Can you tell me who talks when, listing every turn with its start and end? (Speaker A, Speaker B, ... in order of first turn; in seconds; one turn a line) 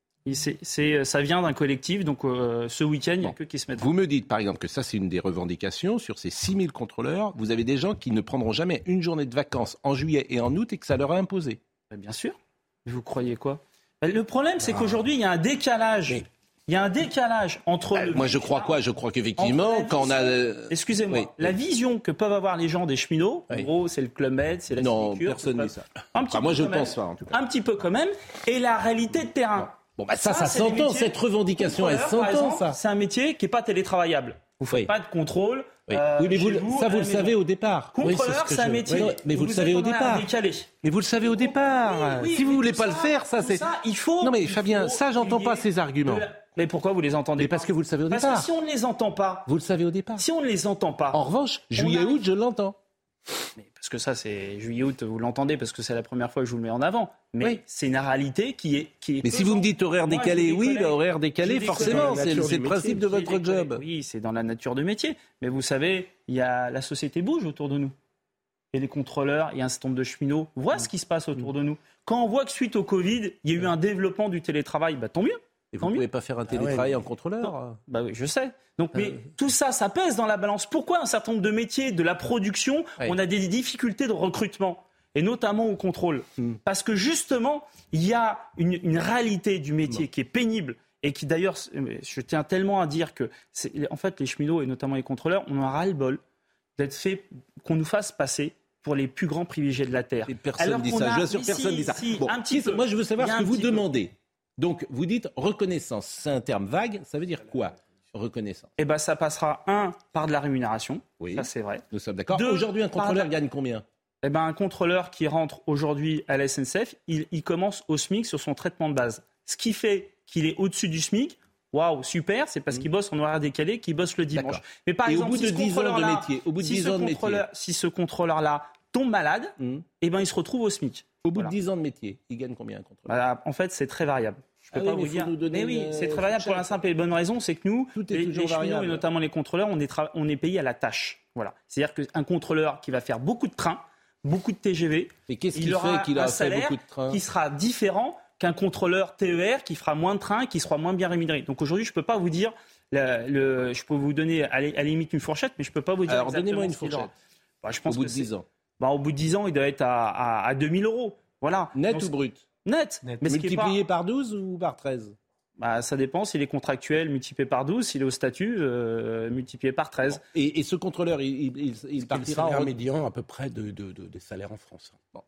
Speaker A: 0.2-3.9
Speaker B: 3.2-11.6
Speaker A: 11.9-18.8
Speaker C: 14.6-15.0
Speaker B: 17.9-21.6
Speaker A: 19.4-37.3
Speaker B: 24.8-27.4
Speaker B: 29.6-32.8
Speaker B: 35.9-40.3
Speaker A: 37.9-40.7
Speaker C: 38.0-39.1
Speaker B: 40.8-43.7
Speaker A: 41.4-49.5
Speaker B: 44.2-46.3
Speaker B: 47.4-48.5
Speaker B: 49.5-50.2
Speaker A: 50.2-52.2
Speaker B: 51.1-52.8
Speaker A: 53.7-67.9
Speaker B: 59.2-63.8
Speaker C: 61.6-63.0
Speaker A: 68.7-76.0
Speaker B: 75.7-77.8
Speaker C: 76.5-76.9
Speaker A: 77.4-96.2
Speaker A: 96.8-103.8
Speaker B: 100.2-108.7
Speaker A: 108.8-113.3
Speaker B: 111.2-113.8
Speaker A: 114.2-131.5
Speaker B: 124.3-127.4
Speaker B: 129.6-129.8
Speaker B: 131.2-133.1
Speaker A: 133.1-157.1
Speaker B: 134.7-136.8
Speaker B: 137.9-139.1
Speaker B: 145.3-147.2
Speaker B: 156.1-157.1
Speaker A: 157.6-162.1
Speaker B: 157.8-158.4
Speaker B: 161.7-162.4
Speaker A: 162.6-163.8
Speaker B: 163.2-165.2
Speaker A: 165.6-170.2
Speaker B: 170.0-172.7
Speaker C: 172.0-175.1